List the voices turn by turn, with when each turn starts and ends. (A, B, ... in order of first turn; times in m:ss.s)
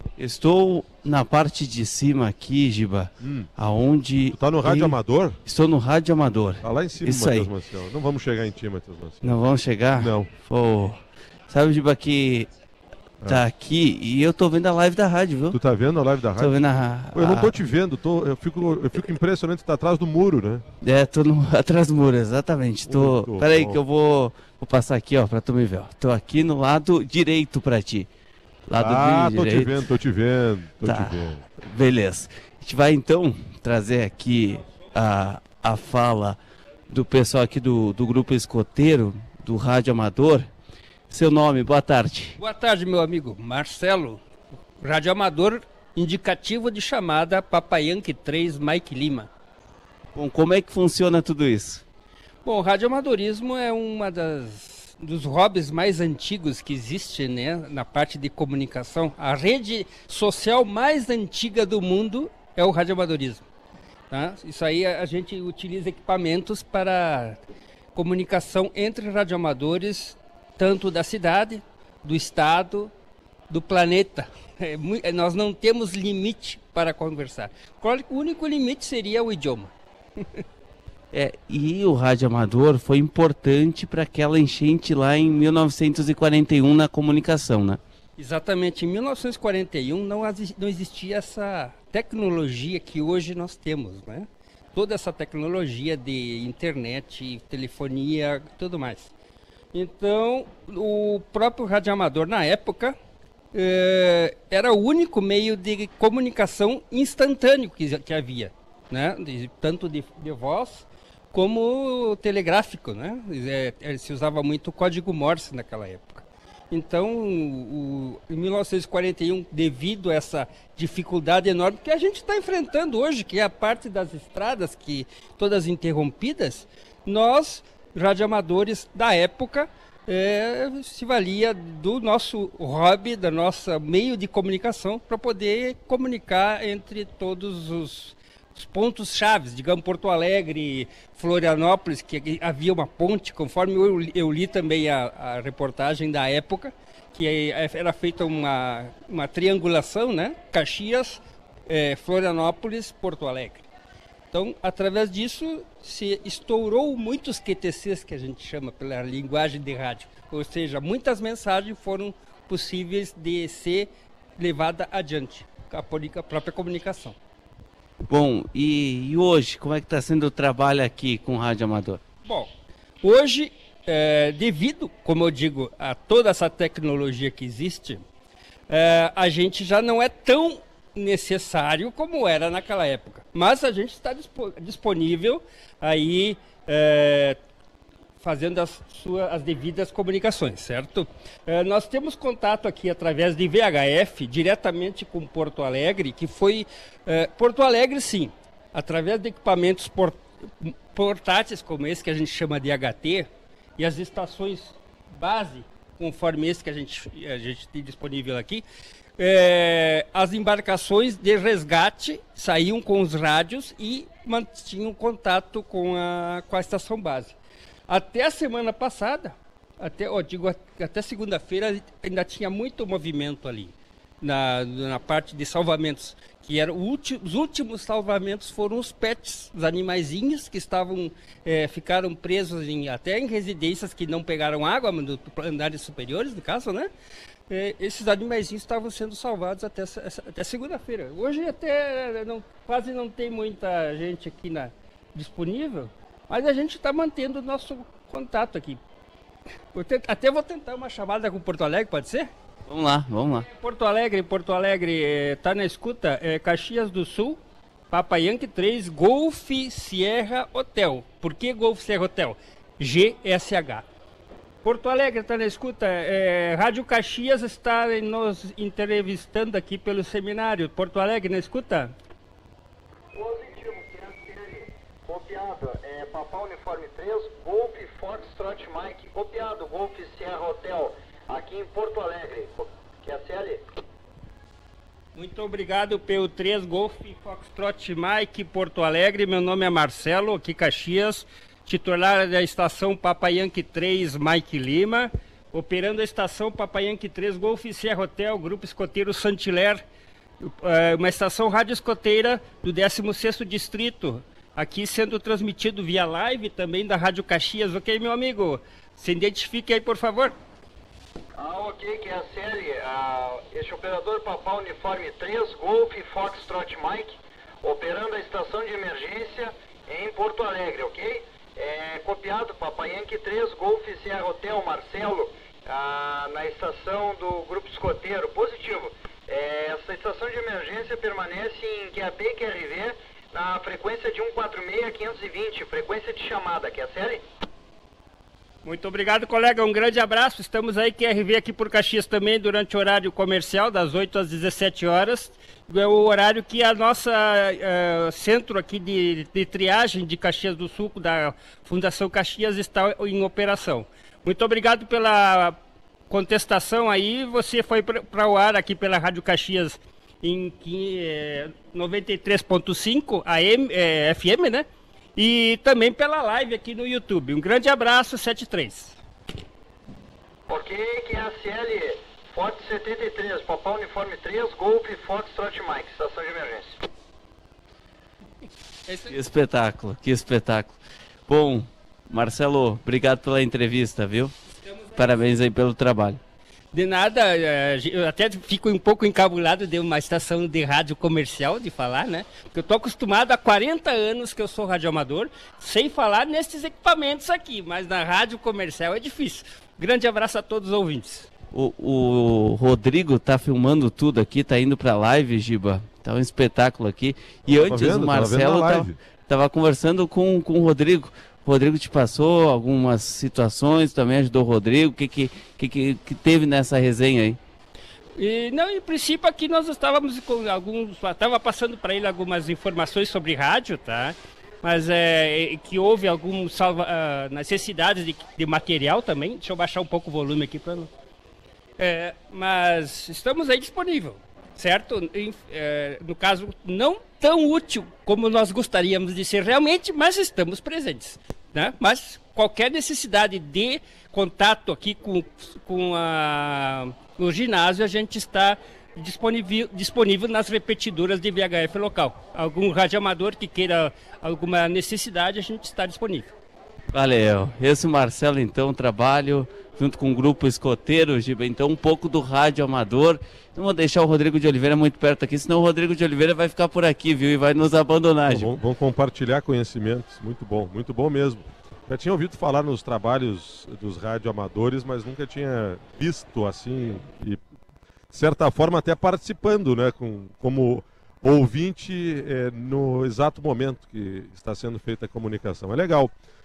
0:00.2-0:07.5 A
0:03.2-0:03.5 B
0:04.3-0:05.4 B
0:06.6-0:09.4 B
0:09.2-0:12.5 A
0:10.0-0:10.3 B
0:13.3-0:15.6 A
0:15.5-0:16.6 B
0:16.4-0:17.6 A
0:17.1-0:20.6 B
0:20.8-0:28.1 A
0:22.9-0:23.8 B
0:28.7-0:29.8 A
0:28.8-0:31.4 B
0:30.8-0:36.4 A
0:36.9-0:40.5 A
0:41.1-0:42.4 A
0:42.4-0:44.2 C
0:44.8-0:49.3 C
0:50.1-0:51.8 A
0:52.4-1:03.4 C
1:04.1-1:07.4 C
1:08.0-1:12.9 C
1:13.5-1:20.4 C
1:21.1-1:27.8 A
1:28.2-1:39.1 C
1:39.7-1:43.0 C
1:43.5-2:33.7 C
2:34.3-2:47.2 C
2:48.1-2:52.0 A
2:52.2-2:58.0 C
2:58.7-3:07.4 C
3:08.2-3:28.6 C
3:29.2-3:37.4 C
3:37.9-3:56.9 C
3:57.5-4:08.8 C
4:09.7-4:12.3 C
4:12.7-4:13.5 A
4:13.5-4:17.4 C
4:17.9-4:23.9 C
4:24.6-4:31.9 C
4:33.1-4:43.6 D
4:45.2-4:59.8 C
5:00.4-5:10.4 C
5:11.4-5:37.2 D
5:38.6-5:55.6 C
5:56.1-6:09.0 C
6:10.5-6:16.8 D
6:18.9-6:19.2 C
6:19.1-6:24.3 A
6:24.6-6:25.3 C
6:25.0-6:26.2 A
6:26.7-6:41.3 C
6:41.5-6:57.4 A
6:47.5-6:49.0 B
6:58.2-7:10.9 C
7:11.8-7:36.3 C
7:36.9-7:48.6 A
7:48.3-7:57.4 B
7:58.1-8:06.1 B